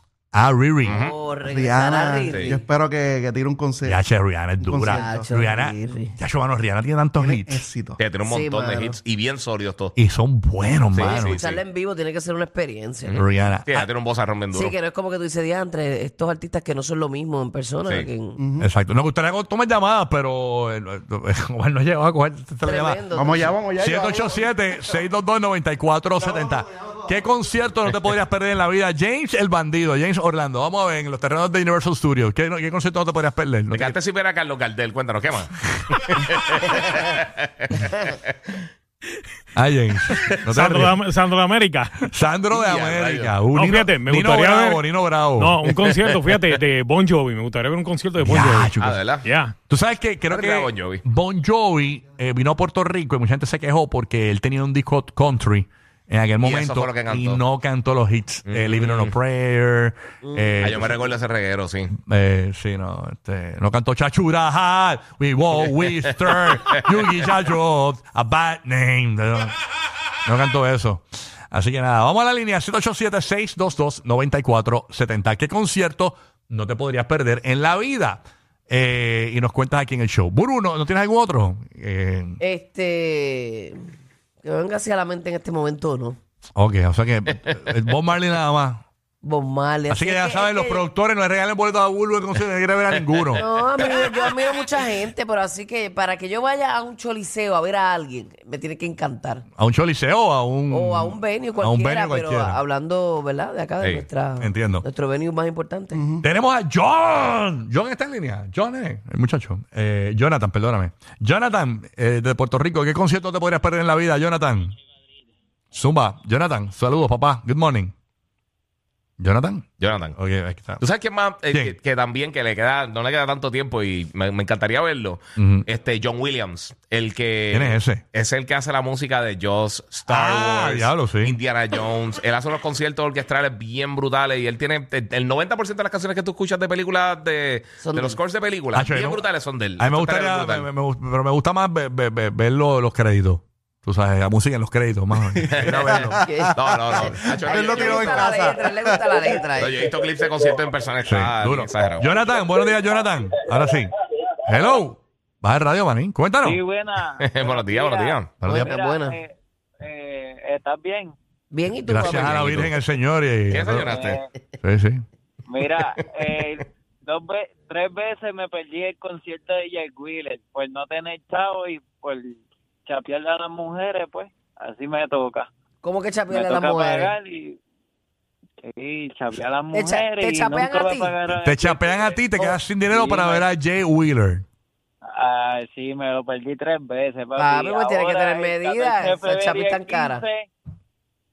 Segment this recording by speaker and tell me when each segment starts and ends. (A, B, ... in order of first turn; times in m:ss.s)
0:00.3-0:01.0 A
0:00.8-0:01.1 B
0:00.9-0:02.6 C
0:01.4-0:04.0 D
0:02.3-0:02.6 B
0:03.8-0:07.6 A
0:04.6-0:05.3 D
0:04.9-0:06.1 C
0:07.2-0:08.0 D
0:08.0-0:09.9 B
0:08.2-0:09.0 C
0:10.0-0:11.4 A
0:10.9-0:11.6 B
0:11.0-0:13.2 C
0:13.0-0:14.8 B
0:13.1-0:13.9 A
0:14.5-0:18.4 C
0:18.4-0:18.7 D
0:18.6-0:23.0 A
0:22.6-0:23.5 C
0:23.1-0:24.5 D
0:23.8-0:34.0 A
0:33.7-0:38.2 B
0:35.7-0:36.0 A
0:39.6-0:41.0 A
0:40.5-0:42.0 E
0:42.1-0:45.6 A
0:42.5-0:43.4 B
0:43.5-0:49.5 E
0:45.8-0:46.2 B
0:48.2-0:49.0 A
0:48.8-0:49.3 B
0:49.7-1:01.0 A
0:50.3-0:51.0 B
0:56.4-0:57.4 B
0:58.4-0:59.1 B
1:00.2-1:01.1 C
1:00.6-1:01.9 B
1:02.0-1:09.6 A
1:05.7-1:06.0 B
1:10.2-1:22.4 A
1:22.4-1:23.8 C
1:24.4-1:26.2 C
1:26.6-1:28.8 A
1:29.2-1:30.8 C
1:29.9-1:33.4 A
1:33.0-1:33.4 B
1:33.3-1:39.4 C
1:39.6-1:42.6 A
1:40.7-1:46.0 C
1:43.8-1:44.0 B
1:44.4-1:44.8 A
1:45.9-1:46.2 D
1:46.2-1:54.8 A
1:55.7-1:57.9 A
1:59.2-2:00.8 A
1:59.8-2:00.2 B
2:00.8-2:20.7 B
2:01.5-2:01.8 A
2:05.4-2:05.6 A
2:07.5-2:08.0 A
2:10.1-2:11.4 A
2:17.8-2:18.2 C
2:18.7-2:19.2 A
2:19.8-2:26.2 A
2:25.4-2:29.3 D
2:25.5-2:28.4 B
2:26.2-2:29.9 C
2:29.6-2:32.1 B
2:31.0-2:33.9 A
2:34.4-2:36.6 A
2:36.4-2:41.1 F
2:37.2-2:38.3 B
2:38.4-2:38.7 A
2:38.4-2:39.2 C
2:41.5-2:42.7 C
2:41.8-2:44.0 A
2:43.5-2:44.2 B
2:43.7-2:44.2 F
2:44.6-2:45.0 A
2:45.5-2:55.5 F
2:55.8-2:57.1 C
2:56.3-2:57.6 F
2:58.6-3:03.5 F
2:59.7-3:01.1 C
3:01.3-3:04.4 A
3:05.1-3:10.5 F
3:07.4-3:10.2 C